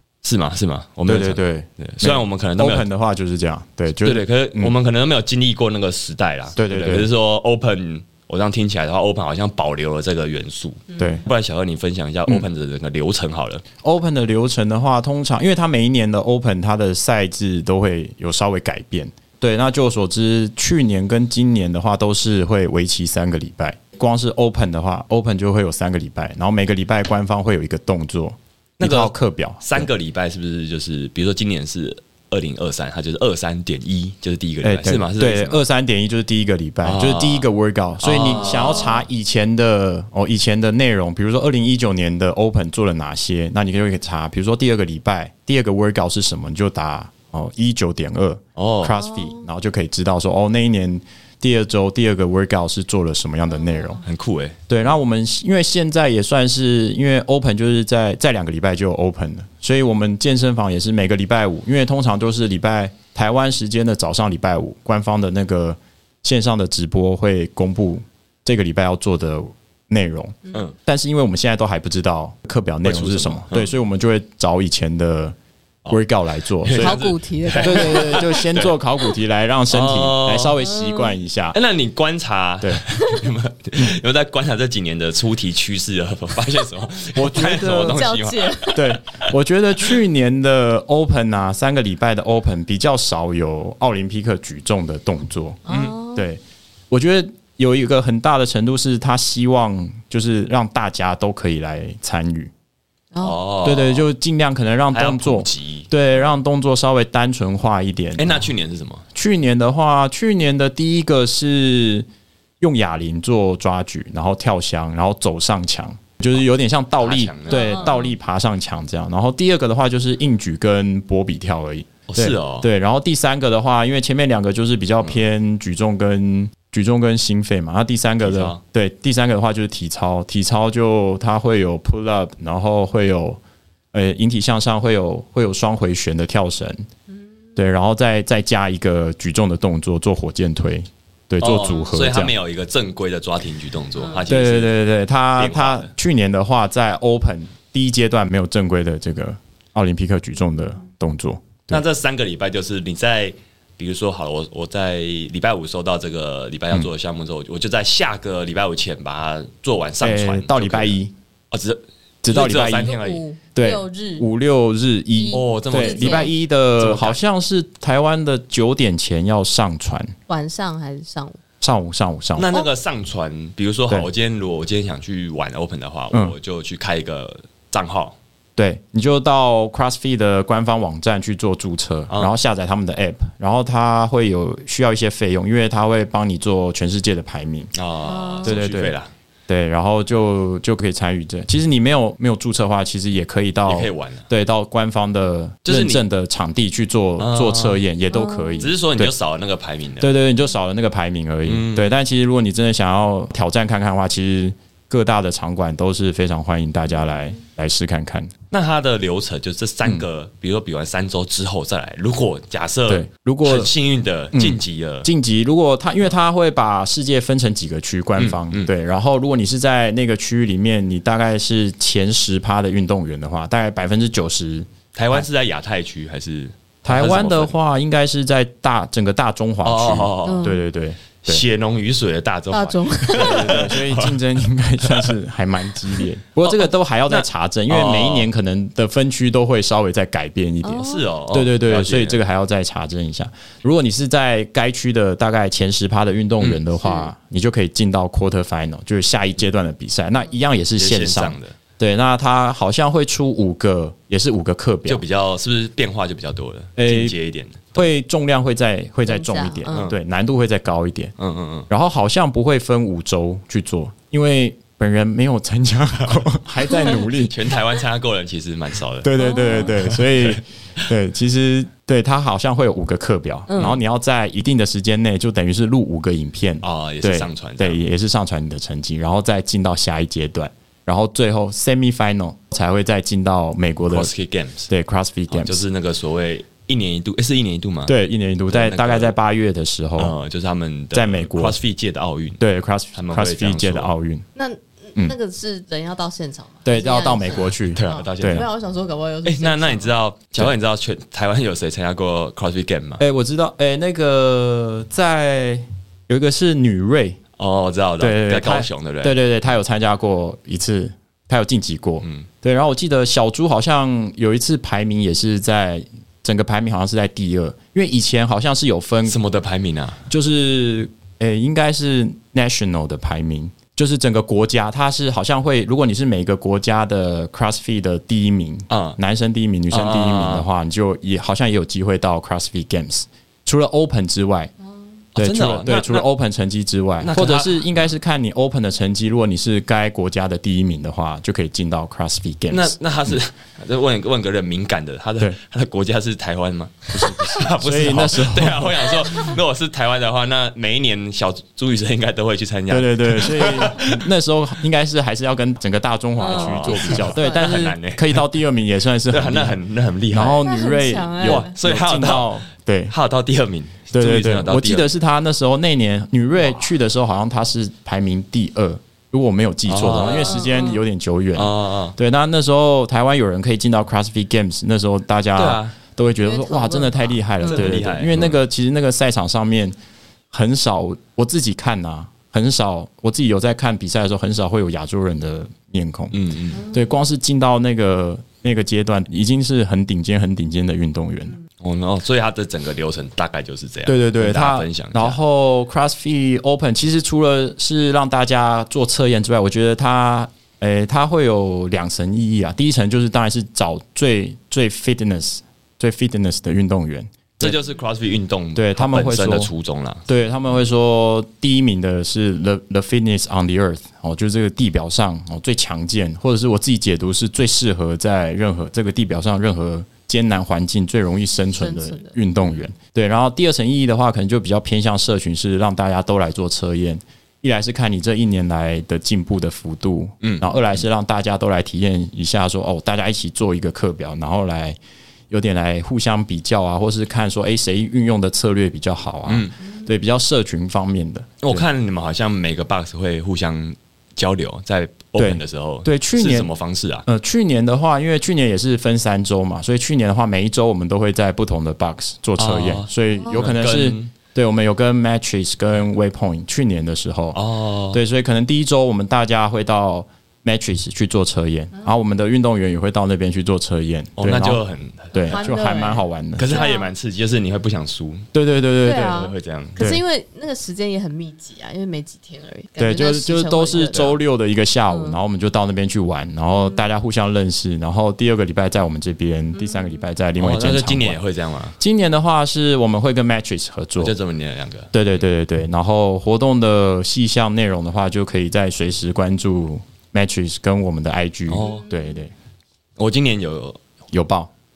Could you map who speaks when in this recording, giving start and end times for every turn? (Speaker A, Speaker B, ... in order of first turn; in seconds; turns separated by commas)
Speaker A: 0.2-2.9, Speaker B: 1.1-4.7, Speaker A: 4.0-13.6, Speaker B: 6.6-7.1, Speaker C: 10.9-11.2, Speaker B: 11.0-11.3, Speaker B: 13.8-29.9, Speaker A: 28.8-35.6, Speaker B: 34.6-54.0, Speaker A: 36.8-37.5, Speaker A: 38.0-39.0, Speaker C: 38.4-39.0, Speaker A: 48.6-49.0, Speaker C: 49.0-49.5, Speaker C: 53.7-54.0, Speaker A: 54.0-54.6, Speaker B: 54.7-75.3, Speaker A: 72.8-73.7, Speaker B: 75.9-77.0, Speaker A: 76.6-78.7, Speaker C: 76.7-78.5, Speaker B: 77.6-81.6, Speaker A: 79.7-80.6, Speaker C: 80.6-81.1, Speaker A: 81.5-88.9, Speaker C: 82.9-83.2, Speaker B: 87.2-88.1, Speaker C: 87.7-88.9, Speaker B: 88.7-102.5, Speaker C: 95.7-96.3, Speaker A: 95.7-96.0, Speaker C: 103.1-103.4, Speaker A: 103.2-104.1, Speaker B: 103.6-108.5, Speaker A: 104.9-105.9, Speaker A: 108.2-109.0, Speaker B: 109.2-112.1, Speaker B: 112.6-133.4, Speaker A: 117.0-118.0, Speaker C: 117.5-118.1, Speaker A: 122.1-122.7, Speaker A: 128.2-128.6, Speaker B: 133.9-136.8, Speaker B: 137.6-142.3, Speaker A: 141.4-144.8, Speaker B: 144.3-151.8, Speaker A: 145.4-145.9, Speaker A: 151.7-161.0, Speaker B: 160.0-161.1, Speaker A: 161.5-163.2, Speaker B: 162.2-163.0, Speaker C: 162.7-164.3, Speaker B: 163.6-170.1, Speaker C: 165.1-166.3, Speaker A: 165.3-167.2, Speaker C: 170.3-171.4, Speaker B: 171.6-172.5, Speaker A: 172.4-178.2, Speaker B: 178.6-187.7, Speaker A: 187.7-189.1, Speaker C: 188.0-188.5, Speaker B: 188.4-188.9, Speaker B: 189.5-199.1, Speaker A: 193.7-194.3, Speaker A: 195.7-196.0, Speaker A: 197.2-197.8, Speaker C: 198.1-198.7, Speaker A: 198.6-200.1, Speaker B: 200.0-208.3, Speaker A: 201.5-201.9, Speaker A: 208.5-215.1, Speaker B: 212.9-213.7, Speaker B: 214.3-225.3, Speaker A: 218.2-218.7, Speaker A: 224.9-227.5, Speaker B: 226.8-231.4, Speaker A: 229.6-230.6, Speaker C: 230.2-230.6, Speaker A: 231.2-235.2, Speaker C: 232.5-233.7, Speaker B: 233.1-255.0, Speaker A: 235.9-238.3, Speaker C: 240.6-241.1, Speaker A: 240.7-242.2, Speaker A: 250.8-251.5, Speaker A: 254.9-257.9, Speaker B: 256.8-257.2, Speaker B: 257.8-261.1, Speaker C: 259.1-259.9, Speaker A: 261.2-261.7, Speaker B: 261.7-267.5, Speaker A: 266.9-270.9, Speaker B: 269.0-284.1, Speaker C: 269.2-269.7, Speaker C: 273.5-273.8, Speaker A: 276.6-277.8, Speaker A: 283.9-284.7, Speaker B: 284.7-285.6, Speaker A: 285.3-287.9, Speaker B: 287.9-290.1, Speaker A: 288.5-289.1, Speaker A: 290.0-292.4, Speaker B: 290.9-291.6, Speaker B: 292.4-294.2, Speaker A: 292.9-293.9, Speaker C: 294.4-299.9, Speaker B: 296.6-298.5, Speaker A: 297.8-298.5, Speaker A: 299.2-303.0, Speaker B: 303.0-307.2, Speaker A: 307.4-309.2, Speaker B: 308.0-319.2, Speaker A: 319.1-320.0, Speaker B: 320.1-334.5, Speaker A: 328.7-329.0, Speaker A: 329.7-330.5, Speaker A: 335.1-336.1, Speaker B: 335.2-342.8, Speaker A: 337.0-337.8, Speaker A: 342.5-354.1, Speaker B: 346.9-349.0, Speaker B: 352.7-359.6, Speaker C: 356.2-357.5, Speaker A: 356.2-358.2, Speaker A: 359.1-360.4, Speaker B: 360.1-362.9, Speaker C: 360.2-361.5, Speaker A: 361.2-362.4, Speaker A: 362.9-364.9, Speaker B: 363.9-379.8, Speaker A: 369.7-370.6, Speaker C: 370.0-370.8, Speaker A: 371.4-372.0, Speaker A: 375.4-375.8, Speaker C: 376.2-377.7, Speaker A: 377.4-378.4, Speaker B: 380.3-391.4, Speaker A: 386.1-386.6, Speaker A: 391.6-395.2, Speaker B: 393.9-407.6, Speaker A: 407.4-410.1, Speaker B: 408.6-409.5, Speaker B: 410.1-434.8, Speaker C: 421.5-422.2, Speaker A: 430.2-430.8, Speaker B: 435.3-441.7, Speaker A: 439.3-439.6, Speaker A: 441.4-447.1, Speaker B: 445.2-446.5, Speaker B: 447.1-457.4, Speaker A: 452.4-454.1, Speaker A: 457.3-458.0, Speaker B: 457.9-464.6, Speaker A: 464.2-465.5, Speaker B: 465.1-466.6, Speaker C: 465.3-466.9, Speaker A: 466.4-468.3, Speaker B: 468.3-469.3, Speaker C: 468.8-474.2, Speaker A: 469.1-469.9, Speaker B: 469.8-470.0, Speaker B: 472.8-481.2, Speaker C: 474.9-475.2, Speaker C: 479.6-480.0, Speaker A: 480.4-481.8, Speaker B: 481.8-484.1, Speaker A: 484.0-484.9, Speaker B: 484.9-492.3, Speaker A: 491.5-491.9, Speaker C: 491.6-492.0, Speaker A: 493.0-493.8, Speaker B: 494.1-494.5